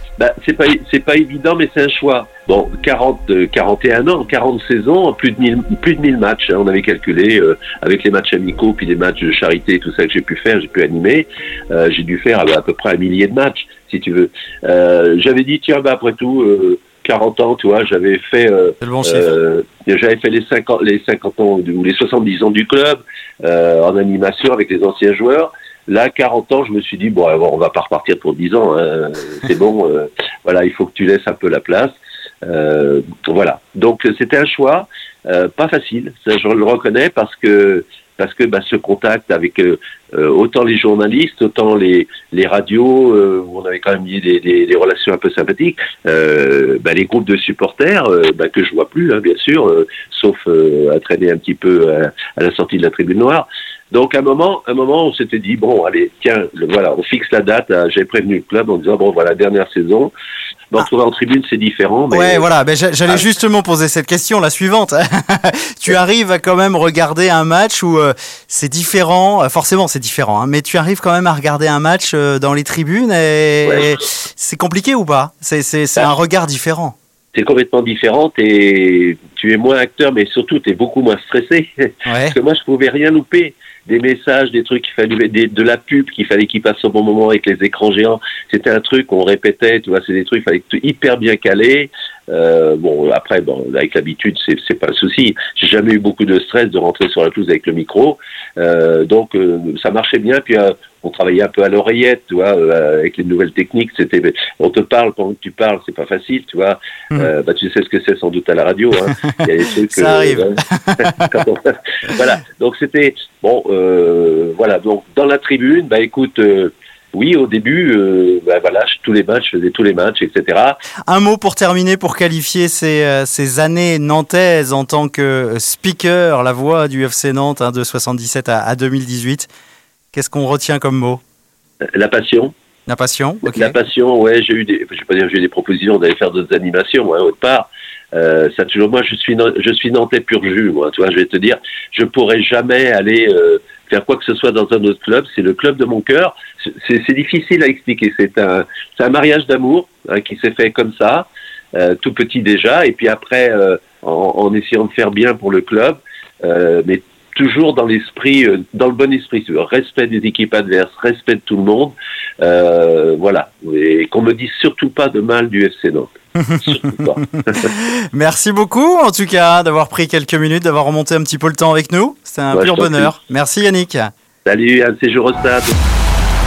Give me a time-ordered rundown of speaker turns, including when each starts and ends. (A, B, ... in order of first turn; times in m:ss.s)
0:00.2-1:00.1 A
0:18.8-0:19.3 B
1:00.7-1:02.5 A
1:02.1-1:16.9 B
1:17.3-1:50.6 A
1:22.1-1:22.3 B
1:49.9-1:51.2 B
1:51.2-2:00.8 A
2:01.1-2:09.5 B
2:10.1-2:11.2 B
2:11.9-2:12.5 A
2:12.9-2:13.7 B
2:13.4-2:47.7 A
2:47.7-2:54.1 B
2:52.5-2:53.1 A
2:54.4-2:55.7 A